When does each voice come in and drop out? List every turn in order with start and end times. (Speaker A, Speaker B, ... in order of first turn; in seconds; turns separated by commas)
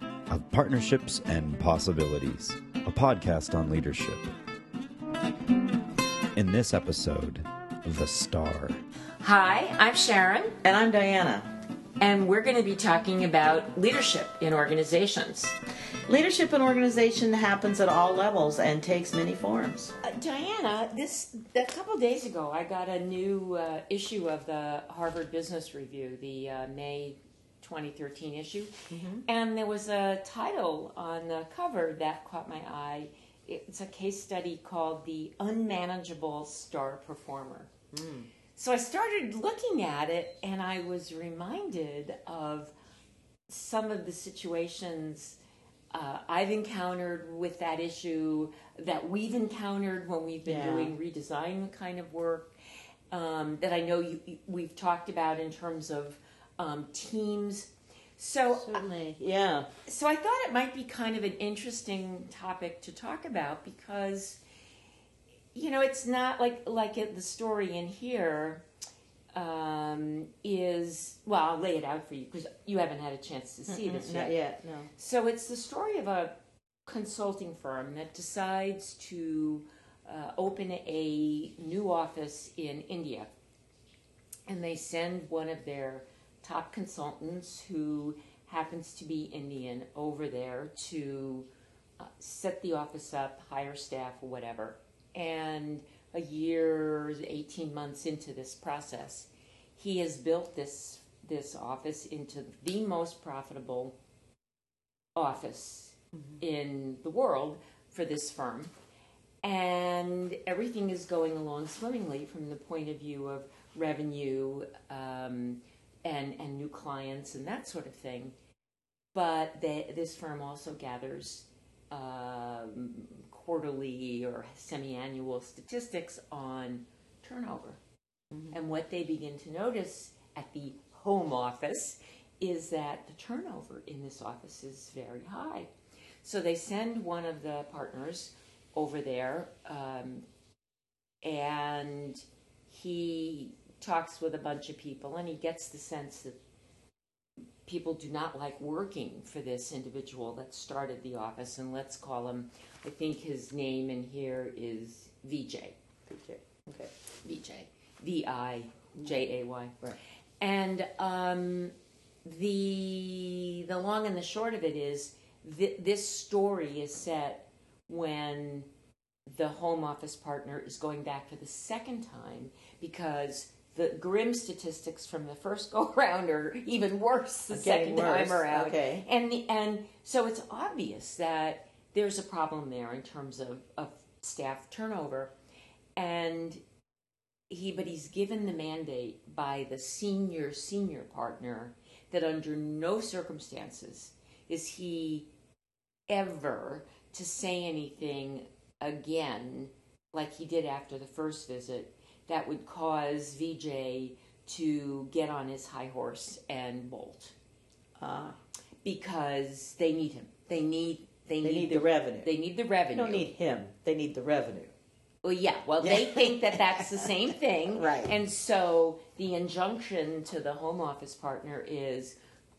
Speaker A: 0.3-4.3, Speaker A: 6.3-8.8, Speaker B: 9.2-10.6, Speaker C: 10.6-11.5, Speaker B: 12.0-15.5, Speaker C: 16.1-19.9, Speaker B: 20.0-37.7, Speaker C: 28.9-29.2, Speaker C: 37.9-38.3, Speaker B: 38.5-42.7, Speaker B: 43.5-45.4, Speaker B: 45.9-52.5, Speaker C: 50.4-51.0, Speaker B: 53.1-58.8, Speaker C: 58.6-59.7, Speaker B: 59.9-64.4, Speaker B: 65.5-68.6, Speaker B: 69.3-74.3, Speaker C: 73.7-74.9, Speaker B: 75.0-76.3, Speaker B: 76.8-83.3, Speaker B: 84.5-91.5, Speaker B: 92.0-104.0, Speaker B: 105.2-108.7, Speaker C: 106.1-106.4, Speaker B: 109.4-118.3, Speaker B: 119.1-127.8, Speaker B: 128.5-135.7, Speaker B: 136.2-140.2, Speaker B: 141.2-146.4, Speaker B: 147.6-155.8, Speaker C: 156.1-156.9, Speaker B: 157.2-159.8, Speaker B: 160.4-161.7, Speaker B: 162.2-168.7, Speaker B: 169.3-185.3, Speaker C: 177.5-179.0, Speaker B: 186.0-186.6, Speaker B: 187.5-195.3, Speaker B: 196.1-207.3, Speaker C: 208.0-208.4, Speaker B: 208.8-213.3, Speaker C: 211.4-212.3, Speaker C: 212.9-214.7, Speaker B: 215.2-222.2, Speaker C: 215.8-217.1, Speaker C: 217.7-218.1